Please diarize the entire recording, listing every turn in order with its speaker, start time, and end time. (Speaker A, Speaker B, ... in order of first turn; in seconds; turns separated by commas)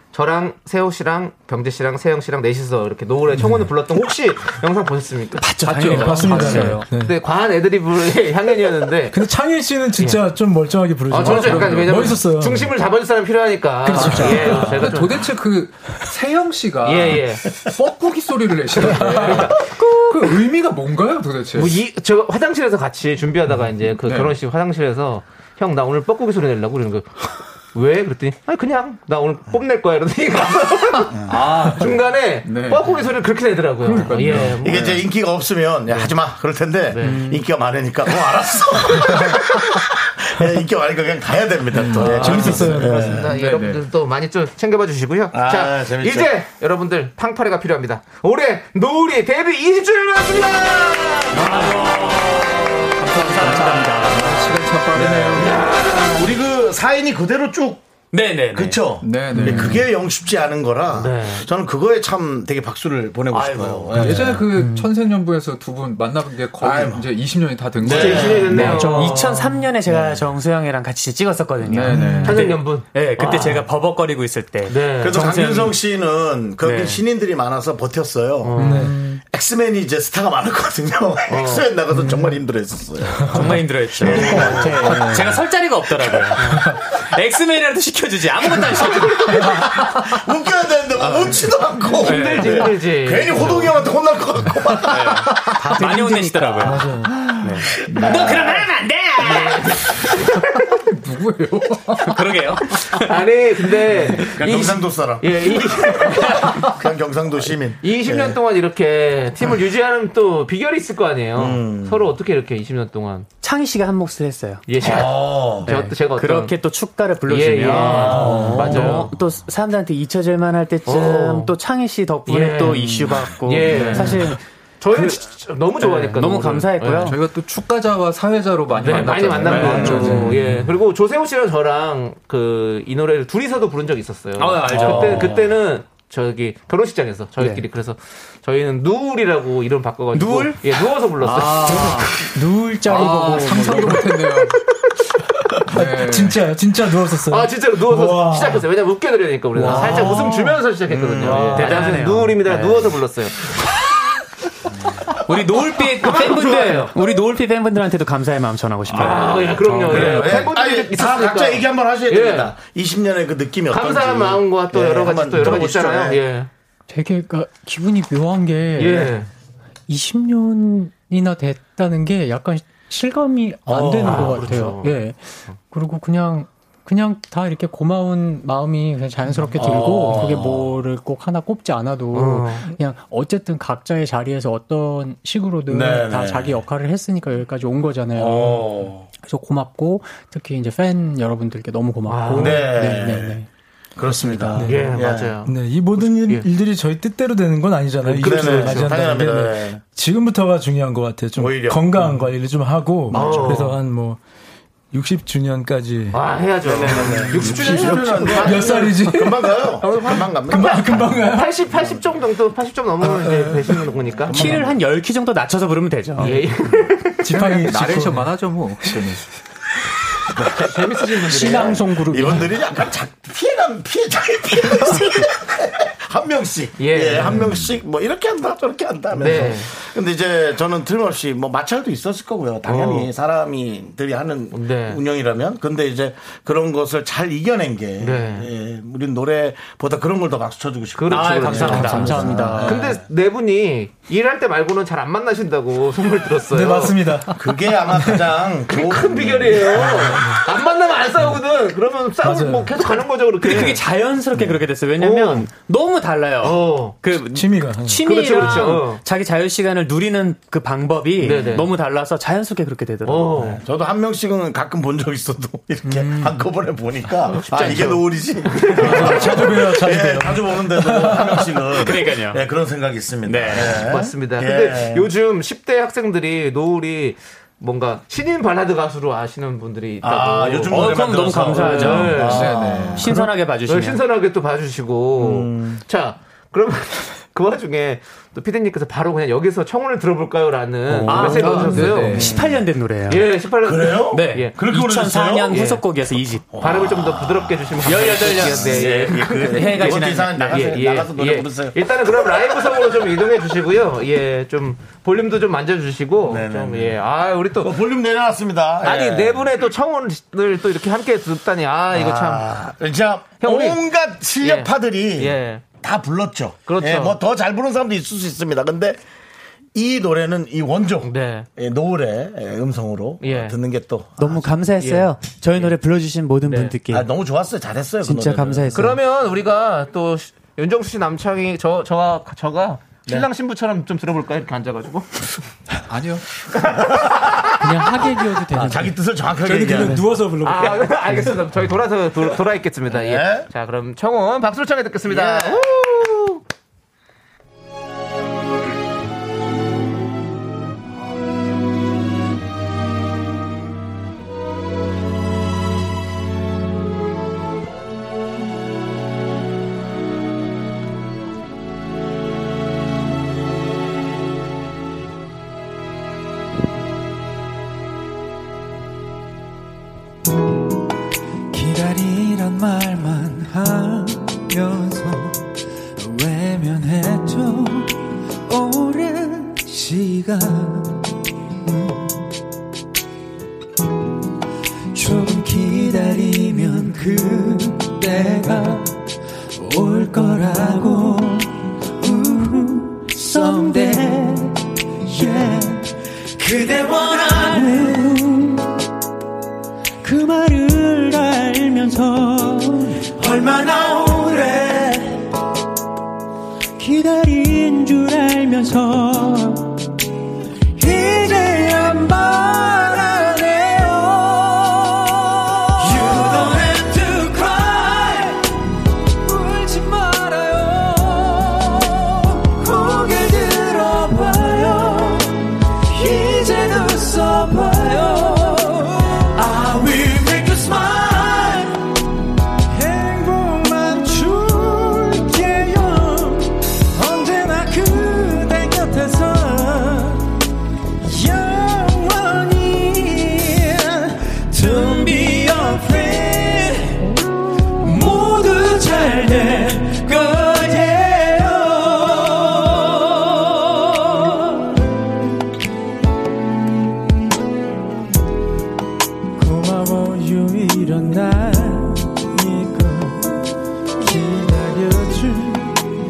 Speaker A: 0.1-9.2, Speaker B: 5.4-6.9, Speaker C: 5.6-7.2, Speaker D: 5.7-6.7, Speaker C: 9.1-12.8, Speaker A: 11.1-15.2, Speaker D: 11.2-12.1, Speaker C: 13.8-15.0, Speaker D: 13.9-21.8, Speaker A: 16.8-17.5, Speaker A: 18.8-19.6, Speaker C: 19.0-19.4, Speaker A: 21.5-35.0, Speaker D: 24.0-24.4, Speaker D: 31.3-33.0, Speaker D: 33.9-34.8, Speaker E: 34.6-43.3, Speaker A: 36.9-37.3, Speaker D: 41.7-43.8, Speaker C: 42.0-43.2, Speaker A: 42.1-51.8, Speaker E: 45.3-46.3, Speaker B: 51.3-55.0, Speaker D: 53.1-55.6, Speaker E: 54.9-57.9, Speaker A: 55.3-56.3, Speaker B: 58.1-59.8, Speaker E: 58.5-64.5, Speaker D: 59.0-59.9, Speaker A: 61.0-61.5, Speaker B: 63.3-64.8, Speaker D: 63.9-69.0, Speaker E: 66.6-67.1, Speaker E: 67.8-68.6, Speaker A: 67.9-69.5, Speaker B: 68.5-75.8, Speaker C: 68.6-69.3, Speaker D: 71.7-72.5, Speaker C: 71.9-72.3, Speaker A: 72.2-73.6, Speaker A: 74.7-75.3, Speaker E: 75.0-78.6, Speaker B: 76.6-77.0, Speaker A: 78.4-78.9, Speaker C: 78.6-79.0, Speaker E: 79.2-85.0, Speaker A: 81.3-81.7, Speaker B: 83.3-90.0, Speaker C: 84.1-85.4, Speaker A: 84.1-84.6, Speaker A: 86.4-86.7, Speaker E: 89.0-95.4, Speaker B: 91.0-92.7, Speaker A: 92.0-93.8, Speaker B: 94.8-100.0, Speaker F: 95.6-96.9, Speaker C: 96.6-97.4, Speaker E: 97.9-98.5, Speaker A: 99.2-100.8, Speaker D: 100.8-102.2, Speaker B: 102.0-103.2, Speaker A: 103.0-106.6, Speaker B: 103.8-104.2, Speaker E: 104.2-108.4, Speaker A: 107.8-113.3, Speaker E: 111.3-112.1, Speaker B: 113.4-114.6, Speaker A: 114.7-116.5, Speaker E: 114.8-115.7, Speaker B: 115.6-125.2, Speaker A: 117.3-119.1, Speaker E: 117.8-118.6, Speaker A: 120.9-121.5, Speaker A: 122.3-127.2, Speaker D: 123.7-124.2, Speaker B: 125.8-127.2, Speaker D: 127.0-130.7, Speaker A: 128.8-142.0, Speaker B: 129.4-130.4, Speaker E: 129.6-130.2, Speaker B: 134.4-135.5, Speaker E: 134.7-135.1, Speaker D: 134.7-135.1, Speaker B: 140.1-140.8, Speaker D: 141.2-142.2, Speaker B: 141.4-142.1, Speaker F: 141.8-144.2, Speaker D: 142.8-144.6, Speaker C: 145.7-148.7, Speaker D: 145.7-146.4, Speaker A: 147.3-153.6, Speaker C: 149.6-150.3, Speaker B: 149.7-150.2, Speaker E: 149.7-150.3, Speaker E: 150.9-151.8, Speaker B: 151.2-153.0, Speaker B: 155.1-160.4, Speaker A: 156.0-157.0, Speaker A: 158.9-162.5, Speaker E: 159.7-166.2, Speaker A: 163.7-166.5, Speaker F: 166.9-169.2, Speaker A: 168.8-169.3, Speaker F: 169.9-193.5, Speaker E: 173.7-174.6, Speaker A: 174.0-175.0, Speaker E: 179.6-180.7, Speaker A: 182.1-182.7, Speaker E: 185.7-186.6, Speaker E: 188.1-189.1, Speaker A: 192.1-192.7, Speaker E: 192.3-193.4, Speaker E: 194.0-195.3, Speaker F: 194.1-194.6, Speaker C: 194.5-204.2, Speaker A: 194.6-196.5, Speaker A: 198.1-199.2, Speaker E: 198.1-199.8, Speaker E: 201.4-202.1, Speaker A: 203.1-203.8, Speaker E: 203.1-203.7, Speaker C: 204.9-206.2, Speaker A: 206.1-209.2, Speaker E: 206.7-211.3, Speaker C: 207.0-209.7, Speaker A: 209.8-214.6, Speaker C: 210.3-211.6, Speaker C: 213.1-213.7, Speaker E: 214.3-214.8, Speaker B: 214.3-216.4, Speaker A: 216.2-217.2, Speaker C: 217.2-218.4, Speaker D: 217.3-219.3, Speaker A: 220.4-221.8, Speaker F: 221.2-222.6, Speaker E: 221.3-243.0, Speaker A: 226.8-227.6, Speaker A: 229.2-229.7, Speaker A: 232.7-233.1, Speaker A: 234.5-235.0, Speaker A: 238.0-238.5, Speaker A: 241.0-247.0, Speaker B: 241.1-242.6, Speaker F: 241.6-242.8, Speaker C: 246.5-247.4, Speaker E: 247.4-250.3, Speaker C: 248.0-248.2, Speaker A: 248.7-253.8, Speaker C: 249.8-250.4, Speaker C: 252.2-252.8, Speaker B: 253.4-263.4, Speaker A: 255.0-255.5, Speaker A: 256.4-257.0, Speaker C: 257.3-258.1, Speaker A: 258.0-259.0, Speaker A: 261.2-261.7, Speaker A: 263.1-263.6, Speaker E: 263.4-275.1, Speaker A: 267.4-269.6, Speaker B: 267.5-268.0, Speaker C: 268.8-271.5, Speaker B: 271.7-272.4, Speaker B: 273.2-274.0, Speaker A: 273.8-282.6, Speaker E: 280.0-283.2, Speaker B: 280.7-284.0, Speaker D: 281.8-283.1, Speaker A: 283.7-292.3, Speaker E: 285.2-285.8, Speaker D: 290.9-292.4, Speaker B: 291.0-293.3, Speaker A: 293.1-294.6, Speaker E: 293.6-295.7, Speaker B: 294.1-296.6, Speaker A: 295.5-295.8, Speaker E: 296.5-302.8, Speaker A: 296.6-307.7, Speaker B: 297.8-300.9, Speaker E: 306.2-307.0, Speaker E: 307.6-309.5, Speaker A: 308.8-312.6, Speaker E: 311.9-319.0, Speaker A: 313.4-313.8, Speaker A: 314.4-315.6, Speaker A: 316.7-317.2, Speaker E: 319.7-324.5, Speaker A: 321.0-321.5, Speaker A: 323.2-323.6, Speaker B: 324.2-327.1, Speaker A: 324.8-325.8, Speaker A: 326.5-326.8, Speaker E: 326.9-328.9, Speaker B: 328.0-329.0, Speaker A: 328.7-335.4, Speaker D: 335.9-336.3, Speaker A: 336.5-337.5, Speaker E: 336.9-337.8, Speaker F: 337.6-339.0, Speaker E: 338.5-340.1, Speaker C: 339.4-341.4, Speaker A: 340.4-346.4, Speaker E: 342.9-343.5, Speaker E: 345.1-345.7, Speaker G: 371.5-375.4, Speaker G: 376.0-377.9, Speaker G: 378.5-381.0, Speaker G: 381.6-382.1, Speaker G: 384.9-388.9, Speaker G: 389.6-398.7, Speaker G: 400.0-405.3, Speaker G: 406.8-409.8, Speaker G: 410.8-418.5, Speaker G: 419.2-431.8, Speaker G: 432.7-440.3, Speaker G: 441.0-447.0, Speaker G: 447.8-454.7, Speaker G: 459.4-463.3, Speaker G: 464.0-465.8